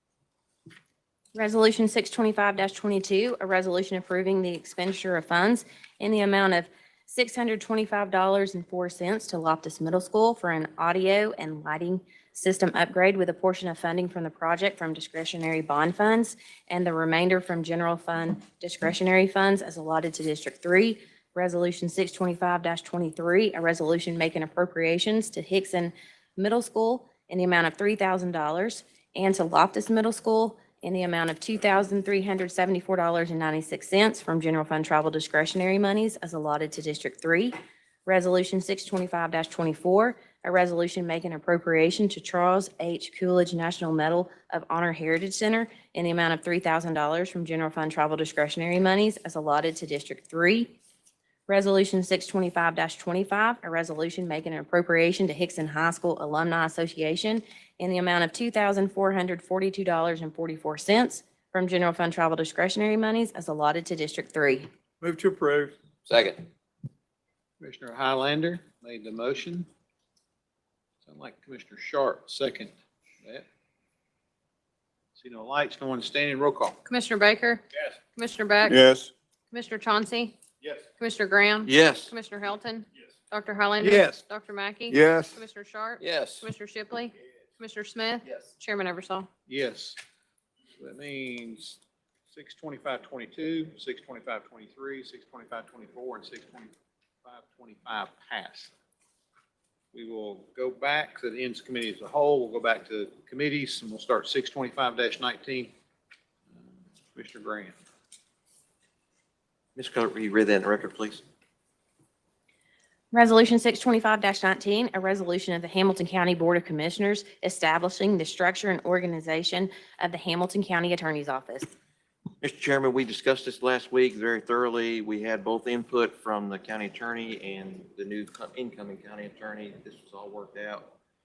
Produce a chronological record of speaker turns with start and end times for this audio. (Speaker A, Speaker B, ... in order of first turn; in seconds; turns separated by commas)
Speaker A: 1.3-37.5, Speaker A: 38.0-50.8, Speaker A: 51.5-64.7, Speaker B: 65.0-65.7, Speaker C: 66.1-66.4, Speaker D: 67.6-69.7, Speaker D: 71.0-73.4, Speaker D: 75.2-76.8, Speaker E: 76.8-78.8, Speaker B: 78.7-79.1, Speaker E: 79.5-80.4, Speaker E: 81.0-89.3, Speaker C: 81.7-82.1, Speaker B: 83.8-84.2, Speaker B: 84.9-85.4, Speaker D: 89.5-90.0, Speaker D: 90.8-96.7, Speaker D: 97.2-98.7, Speaker D: 99.9-105.7, Speaker D: 106.5-107.8, Speaker C: 109.7-111.2, Speaker A: 113.1-121.7, Speaker C: 122.4-130.9